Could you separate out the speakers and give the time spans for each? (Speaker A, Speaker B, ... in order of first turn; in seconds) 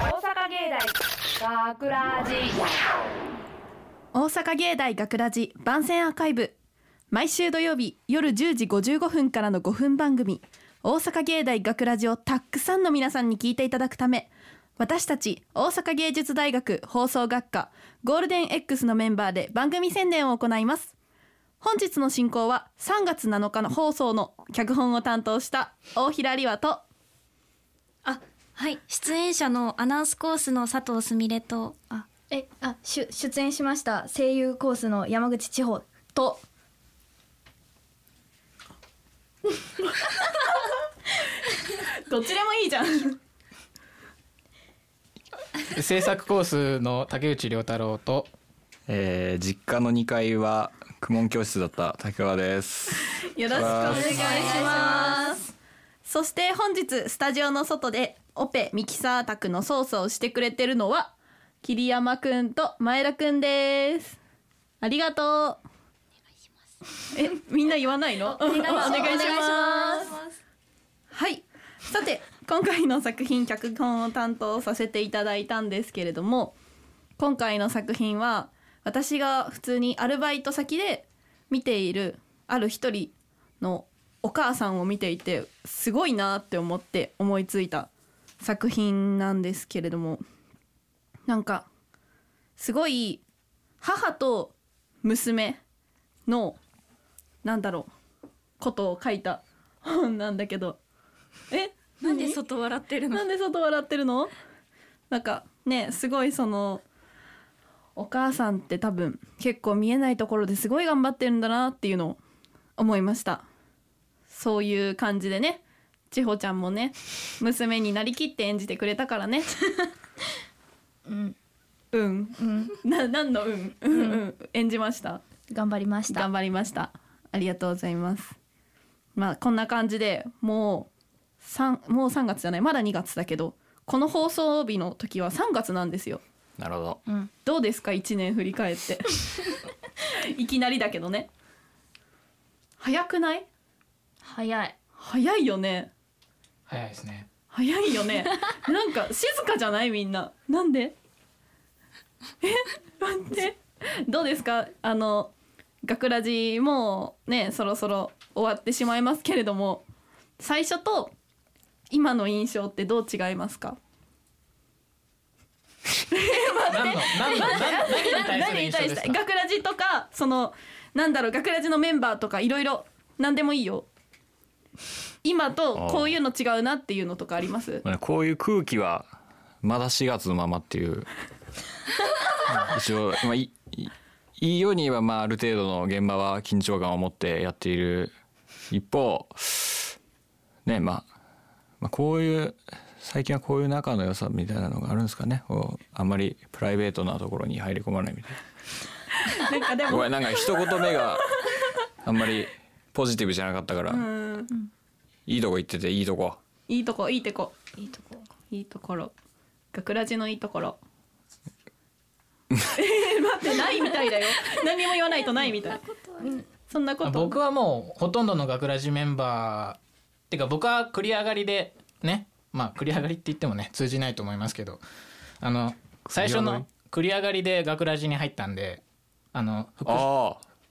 Speaker A: 0.1-2.6
Speaker B: 4.1-6.6, 7.1-20.9, 21.6-26.8, 42.1-43.2, 53.3-55.4, 56.0-64.2, 64.8-65.6, 67.1-70.2, 71.1-76.6, 77.2-87.9, 88.4-90.2, 91.3-91.7, 92.6-93.2, 93.8-95.6, 96.3-96.6, 97.4-97.9, 98.6-100.8, 101.5-102.4, 103.1-104.3, 105.1-106.8, 108.0-112.2, 112.8-113.5, 114.3-119.5, 121.9-125.2, 126.1-128.4, 129.2-130.9, 131.4-136.2, 137.4-139.6, 140.2-141.3, 142.8-143.5, 145.0-145.9, 147.5-150.9, 152.4-159.8, 160.4-161.1, 161.9-163.8, 166.1-173.9, 175.2-177.8, 199.3-200.9, 203.9-204.5, 206.7-207.6, 208.4-209.1, 209.7-210.8, 212.8-215.9, 216.7-217.4
Speaker C: 28.1-31.8, 54.1-55.2, 68.3-70.3, 102.0-103.2
Speaker D: 31.9-36.4, 68.9-69.3, 121.1-121.3, 122.4-122.7, 123.9-124.2, 125.5-126.3, 144.2-144.8, 207.8-208.2
Speaker E: 45.7-48.3, 53.7-54.9, 146.7-147.3, 166.5-169.2, 217.0-224.8, 225.4-228.8, 229.3-230.1
Speaker F: 48.9-54.1, 136.6-137.0, 175.8-176.2, 177.8-181.1, 182.6-188.2, 188.7-189.9, 190.7-191.1, 191.8-198.4, 199.9-201.4, 202.0-204.1, 205.3-206.4, 226.1-226.7, 229.9-230.4